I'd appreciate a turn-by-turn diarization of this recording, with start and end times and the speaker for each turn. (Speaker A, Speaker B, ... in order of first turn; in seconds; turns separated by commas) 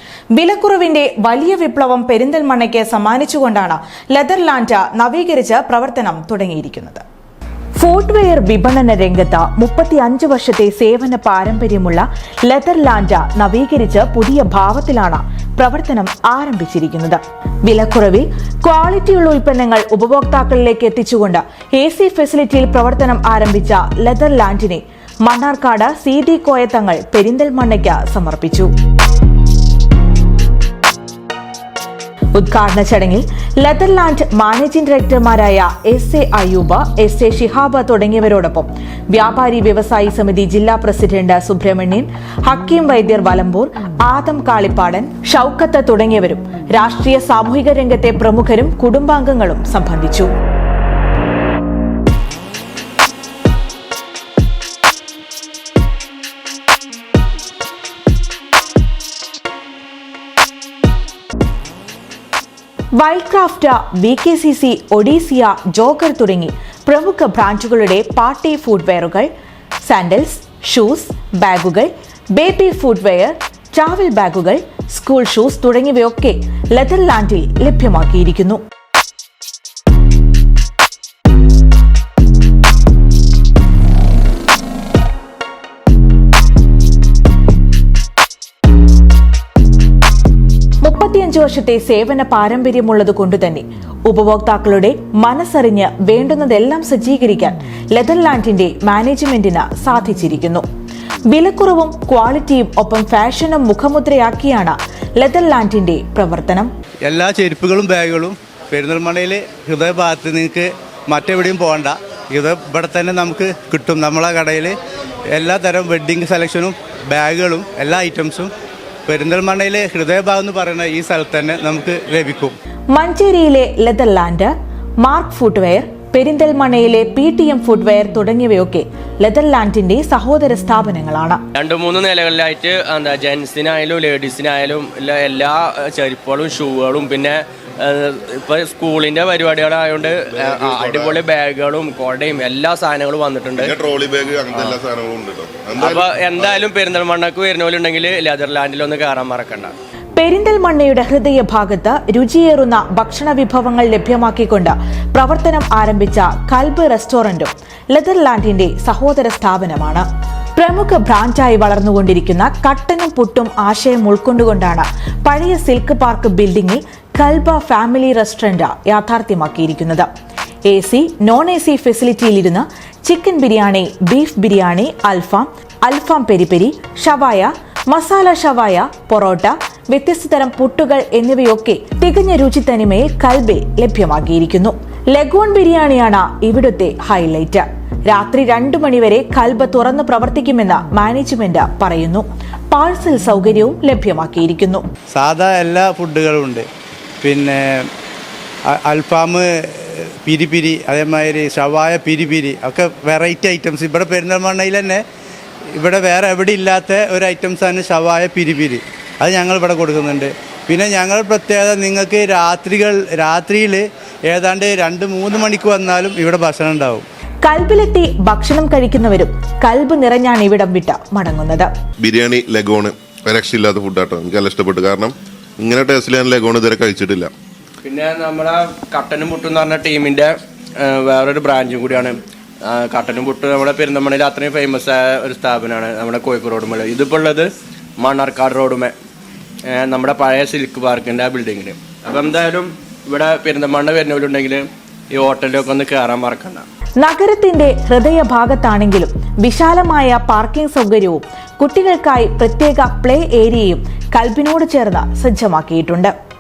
Speaker A: 0.3-7.0, Speaker A: 7.8-28.7, Speaker A: 32.3-50.3, Speaker A: 63.0-69.3, Speaker A: 69.9-78.6, Speaker A: 90.8-100.7, Speaker A: 101.3-106.7, Speaker B: 107.0-114.8, Speaker B: 115.3-118.5, Speaker B: 119.1-122.6, Speaker A: 122.9-131.4, Speaker C: 131.6-143.7, Speaker D: 140.4-141.2, Speaker D: 143.6-146.6, Speaker C: 145.8-149.7, Speaker A: 150.2-170.1, Speaker A: 170.7-194.8, Speaker B: 195.1-196.7, Speaker B: 197.2-197.9, Speaker B: 198.7-205.0, Speaker B: 205.7-217.1, Speaker A: 217.4-221.7, Speaker D: 222.0-227.3, Speaker C: 227.8-237.5, Speaker C: 238.0-238.9, Speaker C: 239.7-246.7, Speaker A: 247.0-256.1